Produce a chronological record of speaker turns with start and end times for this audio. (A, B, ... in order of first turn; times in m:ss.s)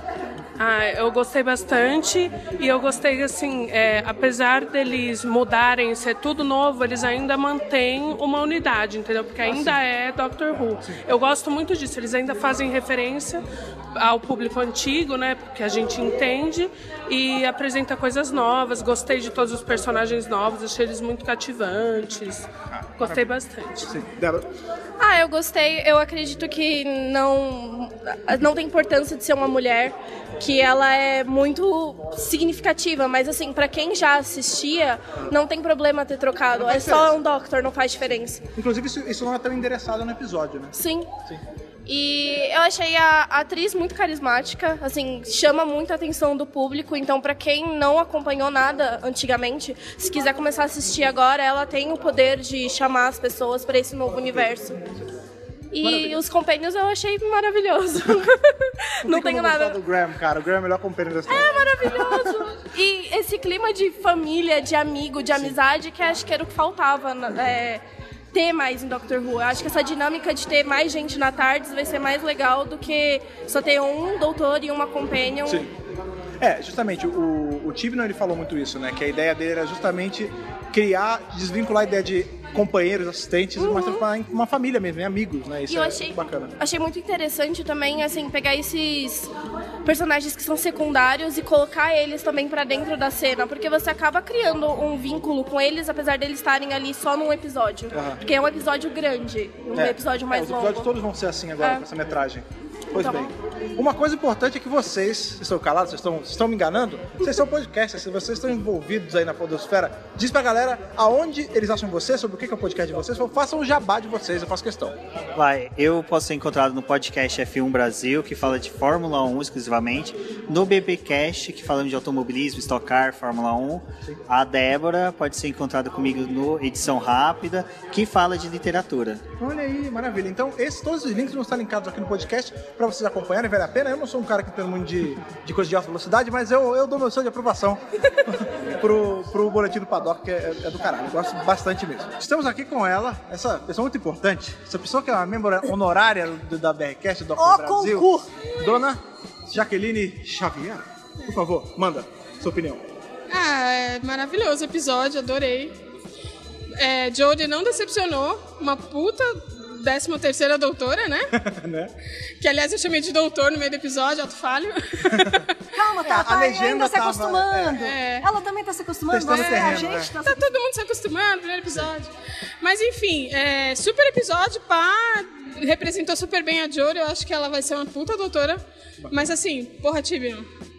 0:00.6-0:13.4 A
0:09.5-0:09.8 B
0:14.0-0:23.9 A
0:22.7-0:24.4 B
0:25.0-0:38.4 C
0:36.5-0:37.2 B
0:38.6-0:40.8 B
0:40.7-0:41.1 C
0:41.9-0:54.8 C
0:54.1-0:54.5 B
0:55.7-0:58.4 C
0:55.8-0:56.2 B
0:59.0-0:59.8 C
0:59.0-1:02.4 B
1:01.3-1:15.6 C
1:15.4-1:15.7 B
1:16.4-1:26.5 B
1:23.6-1:24.1 C
1:25.7-1:29.3 C
1:29.8-1:40.9 C
1:37.9-1:38.2 B
1:39.7-1:55.0 B
1:41.6-1:41.8 C
1:43.0-1:43.3 C
1:55.4-2:09.2 D
2:09.4-2:32.8 B
2:27.4-2:28.0 E
2:33.3-2:35.7 F
2:36.8-2:41.3 F
2:41.4-2:41.9 B
2:42.4-2:45.4 F
2:46.0-2:47.9 B
2:46.1-2:47.7 E
2:47.7-2:48.3 F
2:48.2-2:50.1 E
2:49.1-2:50.1 B
2:49.3-3:00.5 F